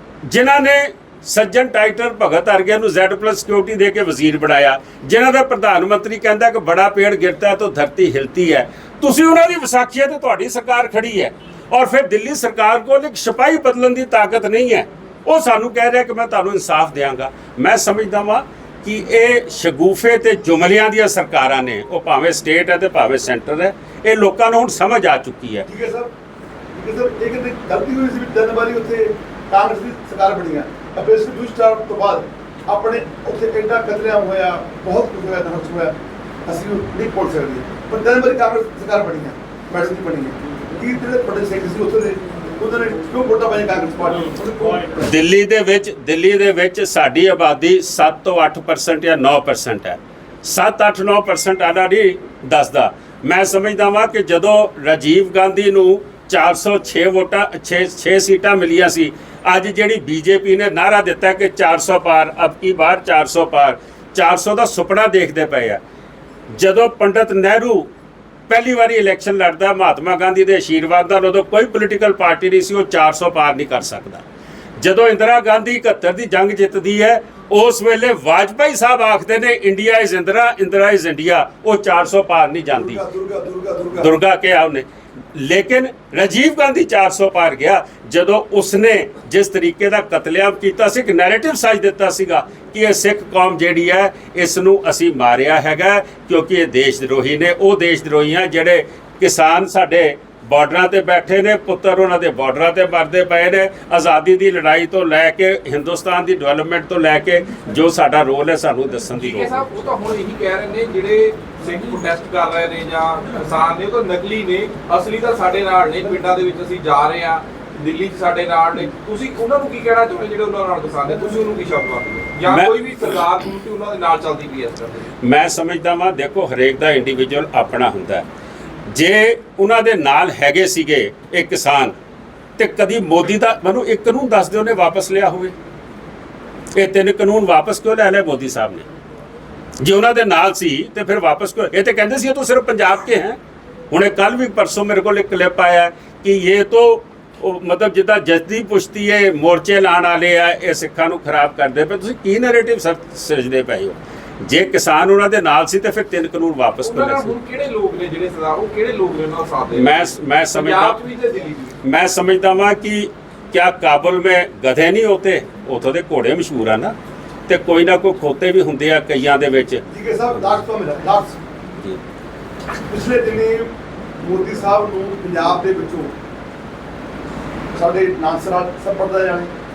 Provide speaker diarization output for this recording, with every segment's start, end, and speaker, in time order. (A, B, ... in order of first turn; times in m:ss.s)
0:00.2-0:25.6 A
0:25.6-0:26.1 B
0:26.7-0:45.0 B
0:45.0-1:05.8 A
1:06.5-1:07.9 A
1:08.5-1:14.2 A
1:14.8-1:23.0 A
1:22.7-1:24.1 B
1:24.0-1:49.7 A
1:49.2-2:05.1 C
2:02.5-2:03.2 A
2:05.2-2:08.3 A
2:08.9-2:11.9 A
2:12.6-2:15.5 A
2:16.7-2:18.9 A
2:19.8-2:23.4 A
2:23.9-2:37.4 A
2:36.8-2:40.0 C
2:39.7-2:41.0 A
2:40.5-2:41.7 C
2:41.8-2:46.9 A
2:47.5-2:50.6 A
2:49.9-2:51.4 B
2:52.9-2:56.1 B
2:57.7-2:59.5 B